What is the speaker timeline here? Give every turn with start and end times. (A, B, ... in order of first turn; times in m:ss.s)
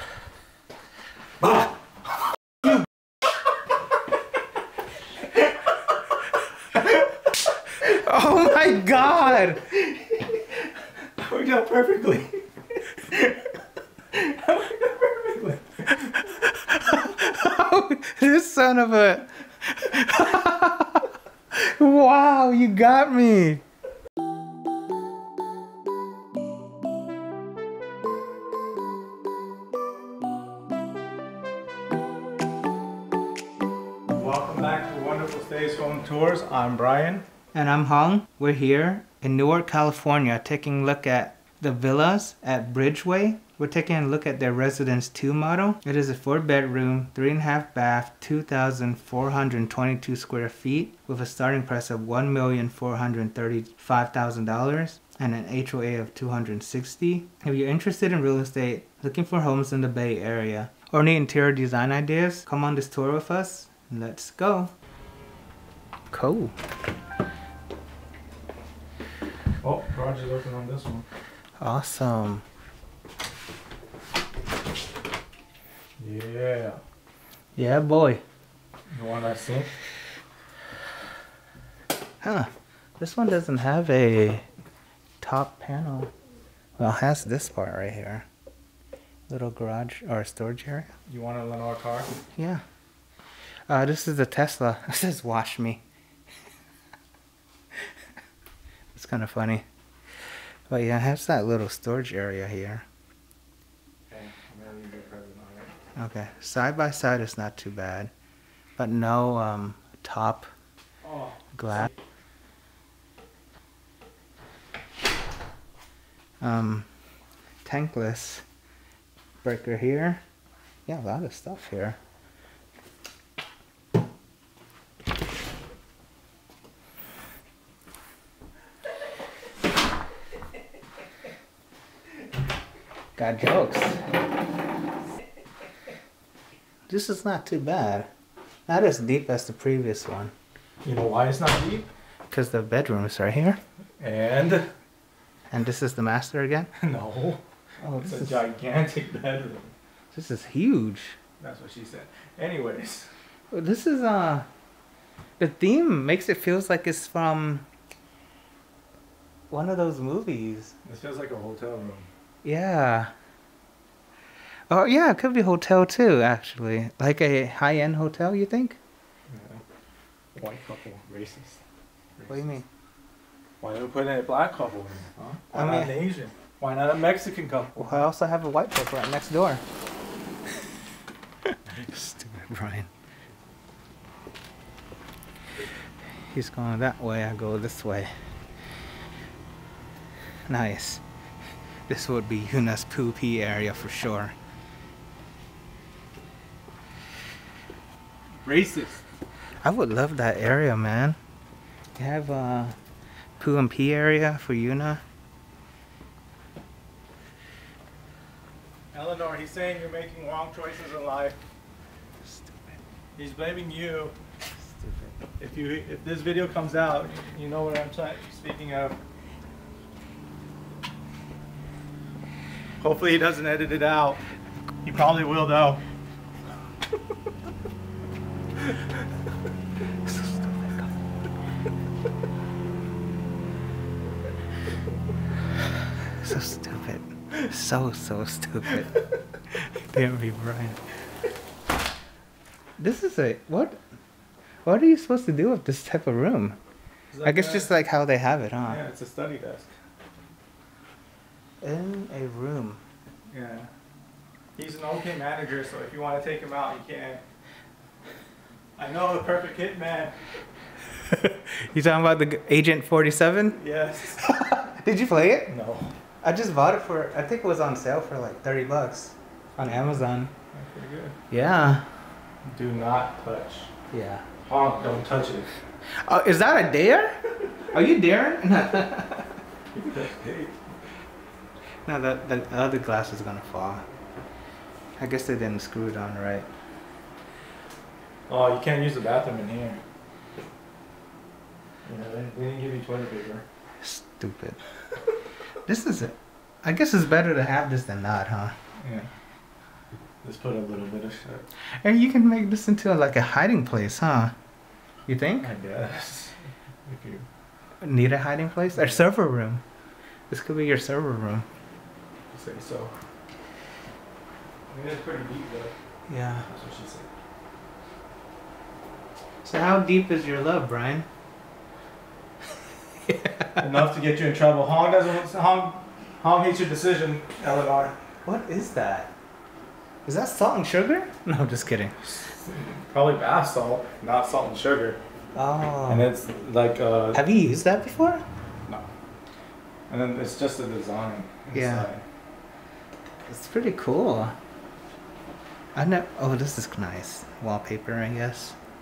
0:07.7-0:09.8 A
0:09.9-0:10.4 B
0:11.0-0:13.6 B
0:14.1-0:16.1 B
0:15.9-0:23.6 A
0:34.1-0:37.2 B
0:37.5-1:04.7 A
1:06.1-1:06.5 A
1:09.6-1:11.0 B
1:11.6-1:12.4 A
1:16.0-1:16.8 B
1:17.6-1:18.2 A
1:18.9-1:19.7 B
1:22.2-1:24.5 A
1:25.2-1:26.1 A
1:26.8-1:28.3 A
1:29.3-1:30.9 A
1:31.1-1:32.2 B
1:32.3-1:32.6 A
1:33.7-1:35.8 A
1:38.9-1:39.6 A
1:40.7-1:42.8 A
1:44.1-1:45.7 B
1:46.0-1:48.1 A
1:48.8-1:50.5 A
1:51.0-1:51.9 B
1:51.5-1:51.9 A
1:56.4-1:56.9 A
1:57.6-1:58.4 A
1:59.4-2:00.2 A
2:00.9-2:02.0 A
2:13.2-2:14.0 A
2:16.9-2:18.1 A
2:18.7-2:20.3 A
2:20.8-2:21.9 B
2:22.3-2:23.6 A
2:24.0-2:24.7 B
2:25.5-2:26.7 A
2:26.8-2:27.4 B
2:27.8-2:28.4 A
2:27.9-2:29.7 B
2:30.1-2:31.2 A
2:31.4-2:33.1 B
2:33.5-2:34.5 A
2:35.4-2:37.6 A
2:39.5-2:40.7 A
2:40.8-2:42.1 B
2:42.4-2:43.1 A
2:44.7-2:48.8 A
2:49.3-2:49.6 B
2:50.3-2:51.6 B
2:52.2-2:52.5 B
2:52.3-2:52.7 A
2:53.6-2:58.0 B
2:55.2-2:56.0 A
2:57.8-2:59.6 A
3:01.5-3:02.9 A
3:06.2-3:08.1 A
3:10.5-3:11.0 A
3:11.9-3:14.3 A
3:18.4-3:19.0 B
3:19.6-3:21.2 A
3:22.0-3:22.8 A
3:23.4-3:25.0 A
3:28.9-3:31.4 B
3:32.2-3:32.8 A
3:33.2-3:34.2 B
3:34.6-3:35.2 A
3:35.4-3:39.0 B
3:42.8-3:44.2 B
3:44.8-3:45.8 B
3:50.0-3:50.9 A
3:56.1-3:58.9 A
3:59.5-4:00.8 A
4:02.8-4:03.8 A
4:04.6-4:06.6 A
4:07.1-4:07.8 B
4:07.2-4:08.8 A
4:08.6-4:09.7 B
4:11.6-4:12.8 A
4:13.3-4:13.7 B
4:14.6-4:17.2 B
4:18.8-4:20.3 B
4:21.0-4:23.6 A
4:23.6-4:24.2 B
4:24.1-4:25.5 A
4:25.5-4:25.9 B
4:26.2-4:30.3 A
4:29.6-4:30.0 B
4:30.5-4:31.2 B
4:31.3-4:31.9 A
4:32.4-4:33.7 B
4:33.9-4:34.2 A
4:34.4-4:35.6 B
4:35.9-4:39.4 A
4:39.7-4:40.7 B
4:41.8-4:43.8 A
4:45.0-4:46.5 A
4:48.3-4:49.8 B
4:51.8-4:53.4 B
4:53.8-4:54.6 A
4:55.6-4:58.6 A
4:58.8-4:59.1 B
5:00.2-5:01.5 B
5:01.7-5:04.3 A
5:05.1-5:05.5 A
5:05.4-5:07.3 B
5:07.8-5:09.6 A
5:10.3-5:11.5 A
5:12.3-5:13.0 B
5:14.7-5:15.7 B
5:16.1-5:16.5 A
5:16.4-5:17.1 B
5:19.4-5:21.1 A
5:23.0-5:23.6 A
5:23.6-5:28.0 B
5:28.2-5:29.1 A
5:30.0-5:32.0 A
5:32.0-5:35.0 B
5:35.3-5:36.1 A
5:35.9-5:37.2 B
5:37.1-5:38.2 A
5:39.9-5:42.0 B
5:41.5-5:41.9 A
5:43.2-5:44.4 A
5:45.7-5:48.6 A